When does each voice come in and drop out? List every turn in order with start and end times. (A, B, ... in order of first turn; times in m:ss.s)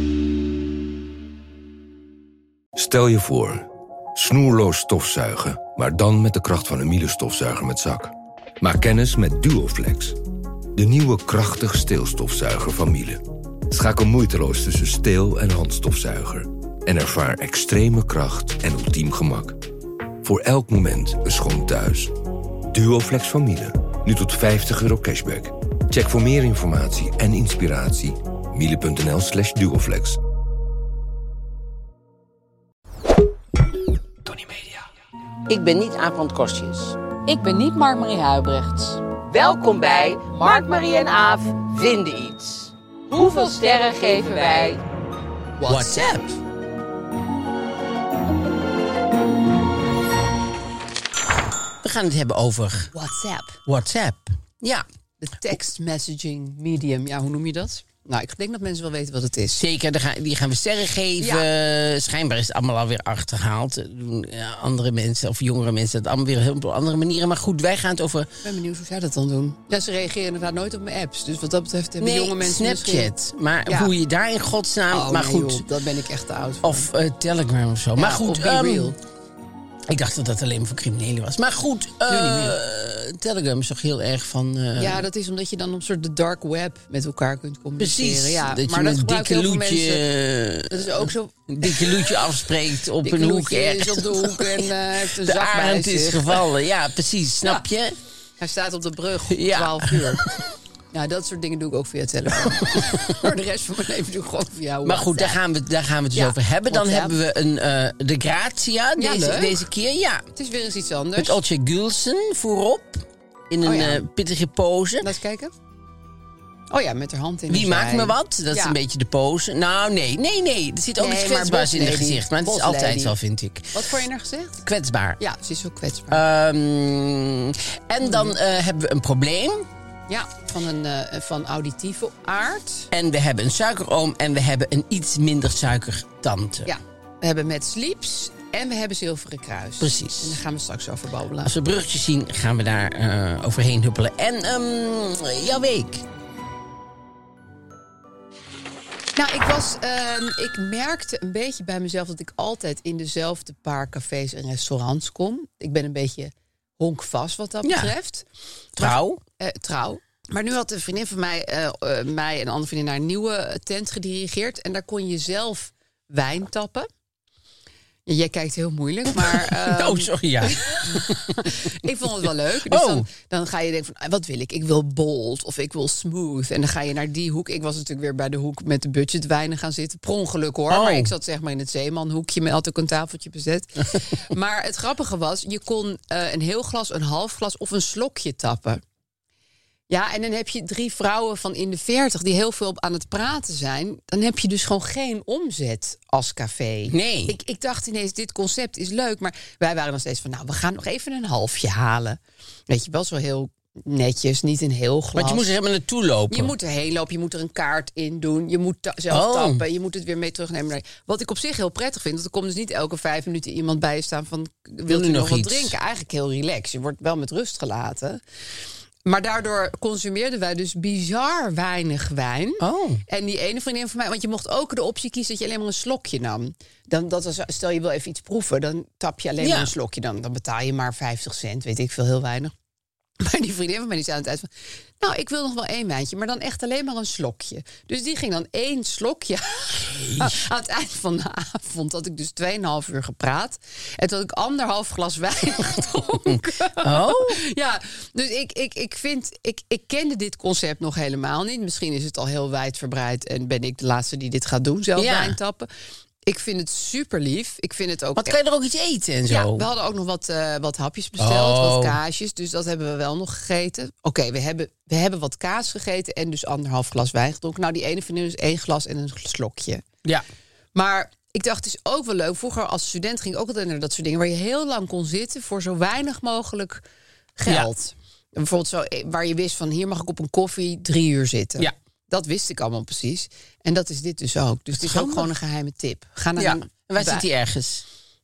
0:02.8-0:10.2 A
0:10.8-0:19.6 A
0:20.2-0:22.1 A
0:22.7-0:30.2 A
0:35.5-0:37.0 B
0:37.2-0:39.0 C
0:39.3-0:44.8 B
0:43.1-0:44.8 C
0:45.6-0:46.2 C
0:45.7-0:46.4 B
0:51.8-0:52.9 B
0:52.9-0:53.6 C
0:53.7-0:54.8 B
0:55.2-0:59.6 C
0:59.6-1:08.3 B
1:01.2-1:01.5 C
1:08.4-1:13.1 C
1:12.0-1:15.7 B
1:13.7-1:13.9 C
1:14.9-1:16.9 C
1:16.6-1:19.0 B
1:18.0-1:19.0 C
1:19.9-1:25.0 B
1:22.1-1:22.6 C
1:24.8-1:30.1 C
1:27.8-1:38.0 B
1:30.7-1:32.0 C
1:33.0-1:36.5 C
1:38.4-1:40.2 C
1:39.3-1:40.2 B
1:40.9-1:45.4 C
1:42.6-1:43.2 B
1:44.8-1:50.3 B
1:46.1-1:47.2 C
1:49.0-1:49.7 C
1:50.4-1:51.4 C
1:51.2-1:55.1 B
1:53.6-1:54.0 C
1:55.0-1:55.5 C
1:56.7-1:58.8 C
1:57.5-2:03.8 B
2:01.0-2:03.2 C
2:03.7-2:04.6 C
2:04.6-2:05.2 B
2:05.2-2:06.2 C
2:06.1-2:09.7 B
2:08.0-2:08.4 C
2:10.1-2:12.9 C
2:12.9-2:16.7 B
2:16.7-2:21.6 C
2:19.8-2:20.4 B
2:21.4-2:26.0 B
2:29.2-2:38.2 C
2:37.6-2:37.9 B
2:38.8-2:39.2 B
2:38.8-2:46.9 C
2:48.1-3:08.8 C
2:49.2-2:51.6 B
2:52.7-2:53.0 B
3:00.7-3:01.1 B
3:09.9-3:25.5 C
3:16.9-3:17.4 B
3:25.2-3:26.5 B
3:26.3-3:38.2 C
3:29.1-3:29.6 B
3:34.9-3:35.7 B
3:39.0-3:52.5 C
3:42.6-3:43.0 B
3:49.4-3:49.7 B
3:53.2-4:15.7 C
3:59.8-4:00.4 B
4:06.7-4:07.4 B
4:15.0-4:15.4 B
4:16.2-4:18.4 C
4:18.2-4:19.7 B
4:19.3-4:29.8 C
4:21.2-4:22.0 B
4:30.8-4:36.8 C
4:37.4-4:47.2 C
4:44.7-4:45.3 B
4:46.4-4:47.8 B